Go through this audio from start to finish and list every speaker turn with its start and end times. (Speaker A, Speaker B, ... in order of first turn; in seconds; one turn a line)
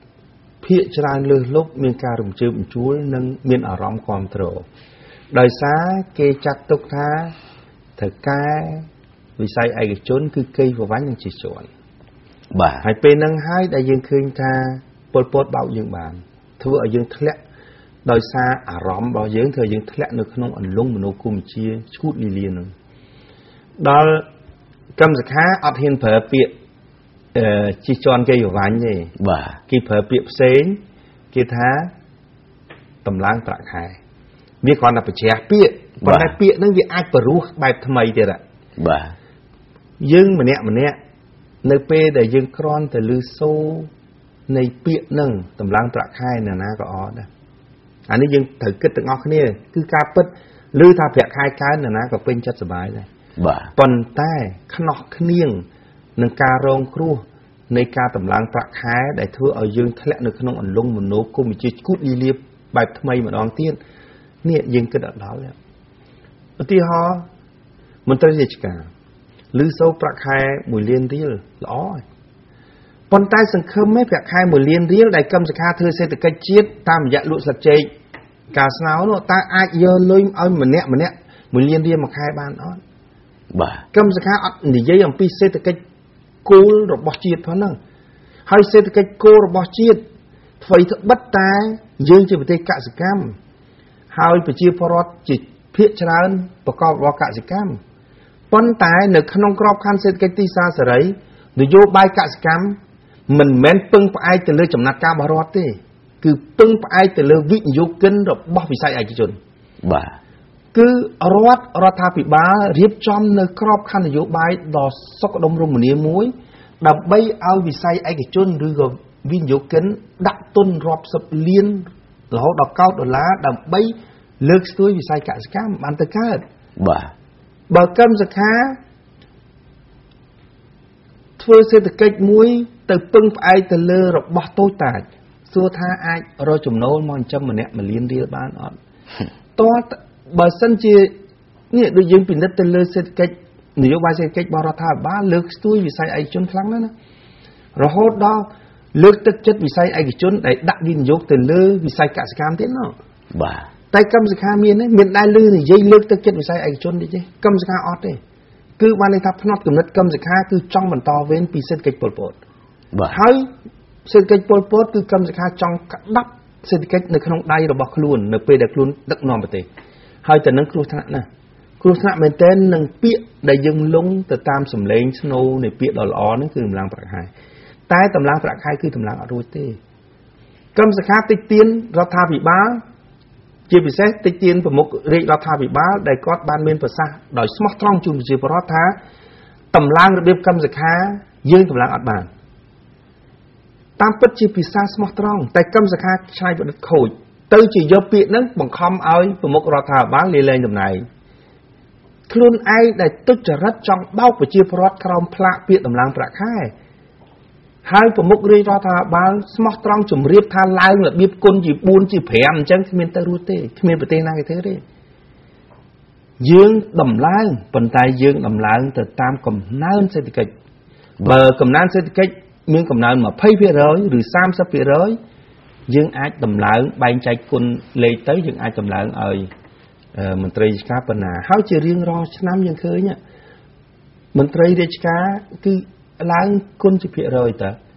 Speaker A: 0.6-4.6
Speaker A: 5.3-7.3
Speaker A: 8.0-8.8
Speaker A: 9.4-11.7
Speaker B: 12.5-12.8
Speaker A: 12.8-17.4
Speaker A: 18.0-22.7
Speaker A: 23.8-24.2
Speaker A: 25.0-26.5
Speaker A: 27.3-29.1
Speaker B: 29.2-29.6
Speaker A: 29.7-30.8
Speaker A: 31.3-31.9
Speaker A: 33.0-34.0
Speaker A: 34.6-38.4
Speaker B: 36.0-36.3
Speaker B: 38.8-39.1
Speaker A: 40.0-41.0
Speaker A: 41.6-43.9
Speaker A: 44.5-47.3
Speaker A: 48.1-53.1
Speaker B: 53.4-53.7
Speaker A: 53.8-55.6
Speaker A: 56.2-63.8
Speaker A: 64.4-65.5
Speaker A: 66.6-67.2
Speaker A: 68.0-68.9
Speaker A: 69.5-72.0
Speaker A: 73.1-77.9
Speaker A: 78.5-82.8
Speaker B: 83.5-83.8
Speaker A: 83.9-85.8
Speaker A: 86.4-87.8
Speaker A: 88.5-90.0
Speaker A: 90.6-93.3
Speaker A: 94.1-97.8
Speaker A: 98.5-102.8
Speaker A: 103.3-109.4
Speaker B: 109.8-110.1
Speaker A: 110.7-126.4
Speaker B: 126.8-127.1
Speaker A: 127.7-128.8
Speaker A: 131.4-138.8
Speaker A: 139.6-141.1
Speaker A: 141.7-146.9
Speaker A: 147.8-152.9
Speaker B: 153.3-153.7
Speaker A: 153.9-158.2
Speaker A: 158.8-162.4
Speaker A: 163.1-163.5
Speaker A: 164.1-169.7
Speaker A: 170.2-171.2
Speaker A: 171.8-177.3
Speaker A: 177.9-179.8
Speaker A: 180.7-182.8
Speaker A: 183.7-189.0
Speaker A: 189.7-192.3
Speaker A: 194.0-201.0
Speaker A: 202.3-206.7
Speaker A: 207.8-214.8
Speaker A: 216.4-220.5
Speaker A: 221.2-225.2
Speaker A: 225.9-229.5
Speaker A: 230.1-233.2
Speaker A: 234.3-237.8